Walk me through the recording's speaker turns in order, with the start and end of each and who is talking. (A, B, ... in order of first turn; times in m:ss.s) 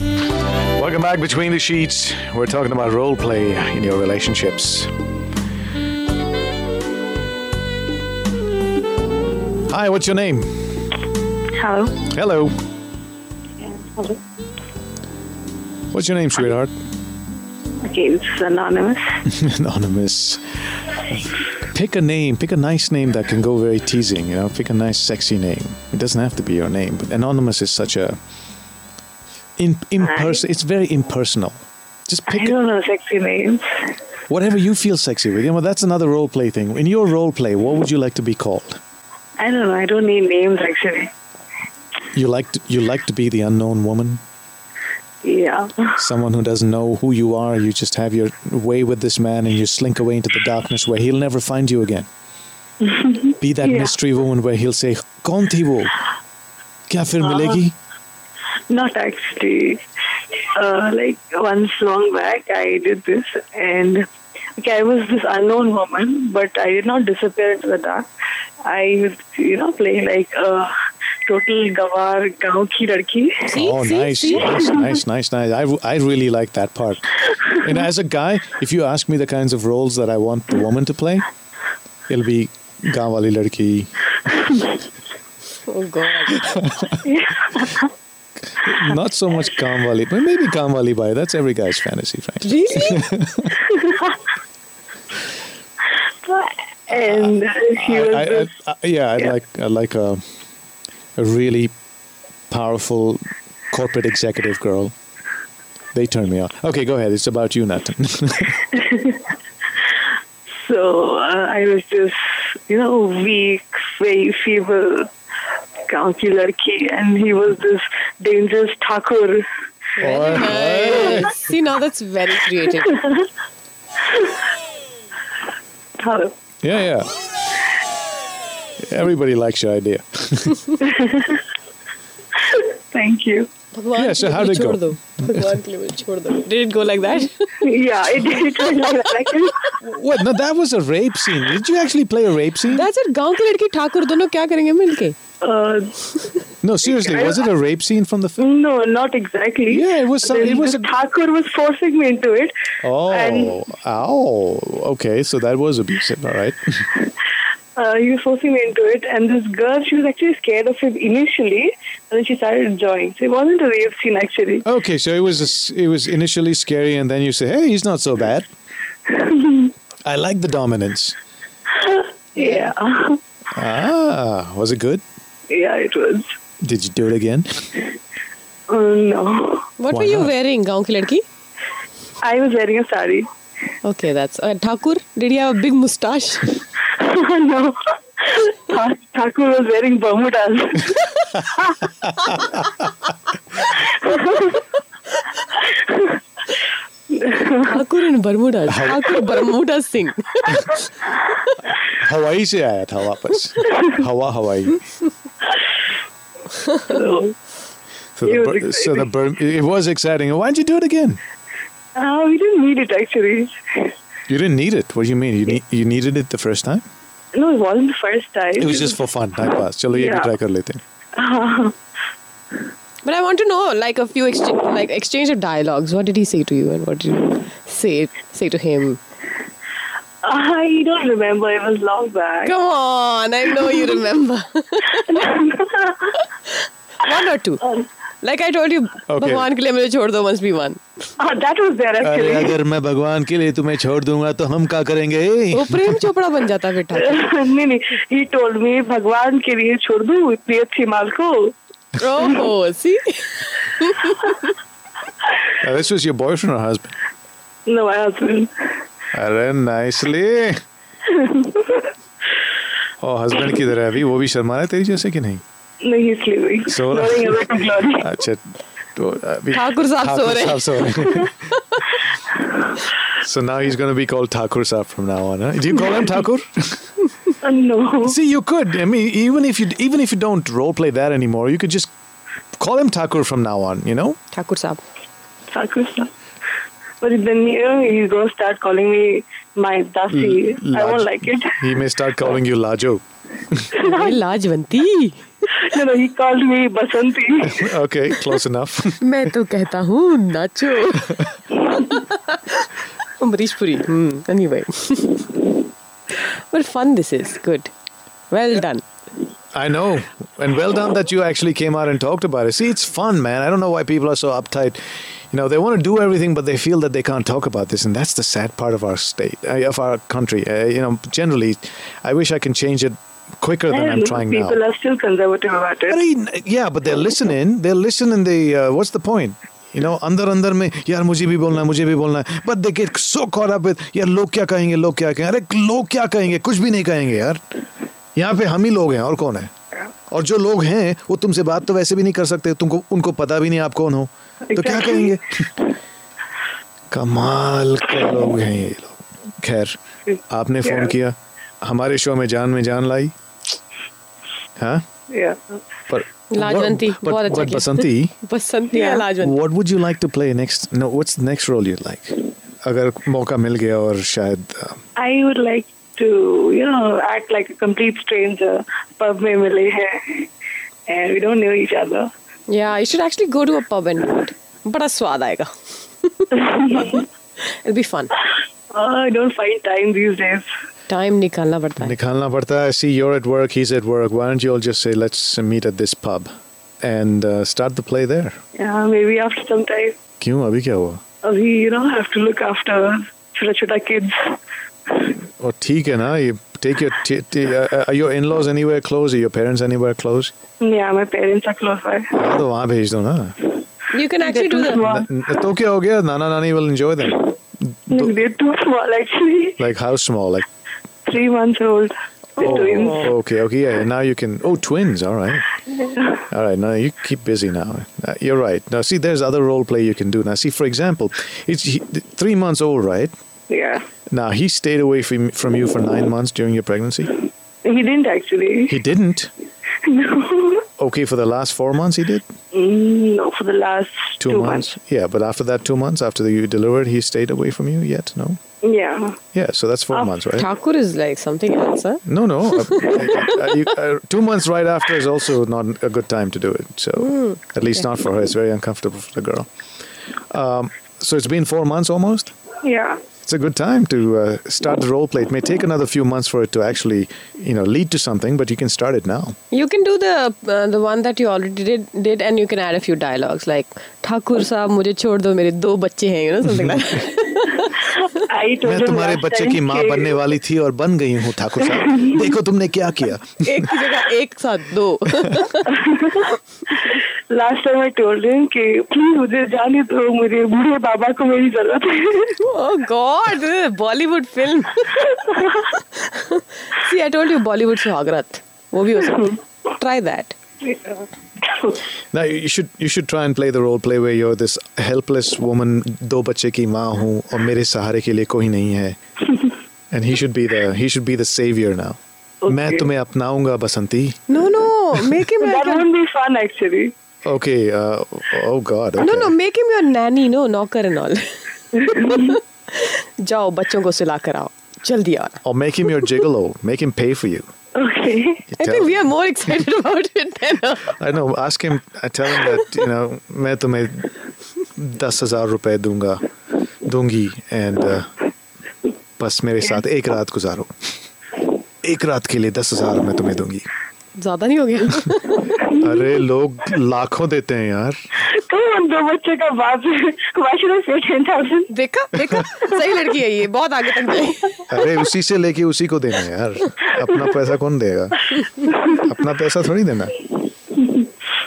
0:00.8-0:04.9 A
0:09.7-0:10.7 A
0:11.5-0:12.0 B
0:12.0-0:12.6 A
0:13.6-0:14.2 B
0:15.9-0:16.7 A
0:17.8-0:19.2 B
0:19.3-0:20.4 A
0:20.9-0:28.2 A
0:29.6-0:32.6 A
0:30.0-0:30.4 B
0:32.3-0:33.7 B
0:34.3-0:38.8 A
0:39.4-0:41.1 B
0:42.1-0:44.2 A
0:45.2-0:46.0 B
0:46.0-0:52.1 A
0:52.8-0:53.9 B
0:53.4-0:56.0 A
0:56.9-0:57.8 A
0:57.2-0:57.6 B
0:58.7-0:59.8 B
1:00.6-1:08.1 B
1:08.6-1:10.7 B
1:11.3-1:13.6 B
1:13.5-1:14.8 C
1:13.6-1:21.3 A
1:22.1-1:23.9 A
1:25.7-1:26.6 C
1:26.3-1:27.0 A
1:27.0-1:27.9 B
1:28.6-1:33.6 A
1:32.4-1:33.1 C
1:33.7-1:34.2 B
1:36.2-1:38.5 B
1:36.9-1:40.2 A
1:41.2-1:41.7 A
1:42.5-1:44.9 A
1:45.9-1:48.6 A
1:48.7-1:49.3 B
1:50.5-1:55.1 B
1:55.9-1:59.4 B
2:00.0-2:03.0 C
2:00.0-2:01.4 A
2:02.9-2:03.3 B
2:04.0-2:04.3 B
2:06.0-2:06.3 B
2:06.6-2:07.1 A
2:08.8-2:10.6 A
2:10.8-2:11.4 B
2:12.4-2:13.5 B
2:13.7-2:17.5 C
2:13.9-2:15.4 A
2:17.6-2:19.8 B
2:19.8-2:22.9 A
2:22.7-2:25.2 C
2:25.4-2:25.9 B
2:26.6-2:28.4 A
2:26.8-2:27.4 B
2:28.4-2:32.5 B
2:29.7-2:30.9 A
2:32.8-2:36.8 A
2:33.1-2:33.6 B
2:37.8-2:44.7 B
2:44.6-2:48.5 A
2:49.1-2:49.7 B
2:50.0-2:51.2 A
2:51.7-2:53.2 B
2:53.5-2:55.0 A
2:55.5-2:56.3 B
2:56.6-2:57.7 A
2:58.7-2:59.7 B
2:59.8-3:01.2 C
2:59.9-3:00.3 A
3:02.2-3:03.3 B
3:03.8-3:06.5 C
3:06.8-3:11.9 B
3:13.6-3:14.6 B
3:15.6-3:16.2 B
3:17.1-3:17.7 B
3:17.7-3:20.6 C
3:18.7-3:19.1 A
3:21.9-3:24.8 A
3:26.8-3:27.3 B
3:28.2-3:31.2 A
3:28.2-3:29.1 B
3:32.0-3:33.9 B
3:34.3-3:36.8 A
3:37.3-3:39.0 B
3:38.6-3:40.8 A
3:39.9-3:40.3 B
3:41.1-3:41.8 B
3:43.0-3:49.0 C
3:50.2-3:52.5 B
3:52.4-3:55.1 C
3:55.1-3:56.1 B
3:57.0-3:57.6 C
3:58.2-4:00.8 C
3:59.1-3:59.5 A
4:01.2-4:02.5 B
4:02.0-4:06.1 A
4:05.5-4:07.2 C
4:06.9-4:11.5 B
4:12.0-4:14.3 C
4:15.6-4:16.9 A
4:17.7-4:18.5 B
4:19.1-4:20.6 A
4:21.1-4:21.9 B
4:23.0-4:25.4 A
4:25.8-4:28.1 B
4:26.7-4:28.4 A
4:29.0-4:31.3 A
4:29.5-4:31.1 C
4:33.2-4:36.8 A
4:37.4-4:38.2 B
4:38.0-4:41.9 A
4:42.6-4:44.2 A
4:44.3-4:44.8 C
4:45.5-4:46.1 B
4:47.0-4:51.6 B
4:50.1-4:53.7 A
4:53.7-4:54.2 B
4:53.8-4:55.2 C
4:55.6-4:57.7 B
4:57.5-4:59.0 A
4:59.0-5:02.7 C
5:03.2-5:05.4 C
5:06.5-5:07.7 C
5:08.3-5:08.8 C
5:09.5-5:24.6 A
5:23.7-5:26.0 B
5:25.9-5:37.4 A
5:38.2-5:39.5 A
5:40.1-5:45.5 A
5:44.5-5:45.2 B
5:46.9-5:49.8 A
5:50.1-5:50.9 B
5:50.3-5:53.1 A
5:54.6-5:54.8 A
5:55.1-5:55.6 B
5:55.9-5:58.2 A
5:56.3-5:59.4 C
5:58.7-5:59.0 B
5:59.2-6:04.8 A
6:05.0-6:10.3 B
6:10.9-6:12.1 B
6:12.5-6:15.5 C
6:16.0-6:16.3 C
6:16.4-6:17.1 B
6:17.6-6:18.1 C
6:18.7-6:20.5 B
6:20.9-6:22.0 C
6:21.8-6:26.3 A
6:26.8-6:28.4 A
6:28.6-6:30.0 B
6:30.2-6:31.0 A
6:31.2-6:34.4 B
6:35.4-6:40.3 A
6:40.6-6:42.3 B
6:42.1-6:43.4 A
6:43.9-6:44.8 C
6:44.2-6:45.1 B
6:44.7-6:48.1 A
6:47.9-6:49.6 B
6:49.6-6:50.4 A
6:51.1-6:53.1 B
6:52.4-6:55.5 A
6:55.9-6:56.2 B
6:56.3-7:03.1 A
7:03.5-7:03.8 B
7:04.1-7:07.1 A
7:07.6-7:08.8 B
7:08.7-7:09.3 A
7:09.8-7:10.7 B
7:10.8-7:12.2 A
7:12.5-7:14.7 B
7:14.2-7:18.4 A
7:18.6-7:19.2 B
7:19.3-7:20.5 A
7:20.4-7:23.3 C
7:22.1-7:29.5 A
7:27.0-7:27.4 C
7:30.3-7:32.3 A
7:32.6-7:33.0 B
7:33.2-7:39.4 A
7:39.5-7:47.9 C
7:46.5-7:46.8 A
7:48.1-7:50.2 B
7:48.6-7:53.7 A
7:51.7-7:52.2 B
7:53.4-7:55.7 C
7:55.7-7:56.3 B
7:56.9-8:02.4 B
8:02.4-8:05.1 C
8:05.7-8:10.4 C
8:10.6-8:11.8 B
8:12.1-8:19.0 A
8:19.9-8:24.2 A
8:22.4-8:22.9 B
8:24.3-8:25.8 C
8:25.4-8:26.9 B
8:27.2-8:29.3 A
8:29.0-8:31.4 C
8:31.8-8:32.4 B
8:31.9-8:35.4 C
8:35.4-8:37.5 A
8:37.8-8:38.4 B
8:38.5-8:39.0 A
8:38.6-8:40.9 C
8:40.9-8:44.1 A
8:44.8-8:46.2 A
8:46.8-8:48.1 A
8:49.2-8:50.7 A
8:51.8-8:53.7 A
8:54.2-8:55.5 C
8:55.7-8:55.9 B
8:55.8-8:58.0 A
8:58.3-9:01.7 B
9:01.7-9:04.6 C
9:04.7-9:08.2 A
9:08.9-9:10.2 A
9:10.8-9:11.1 B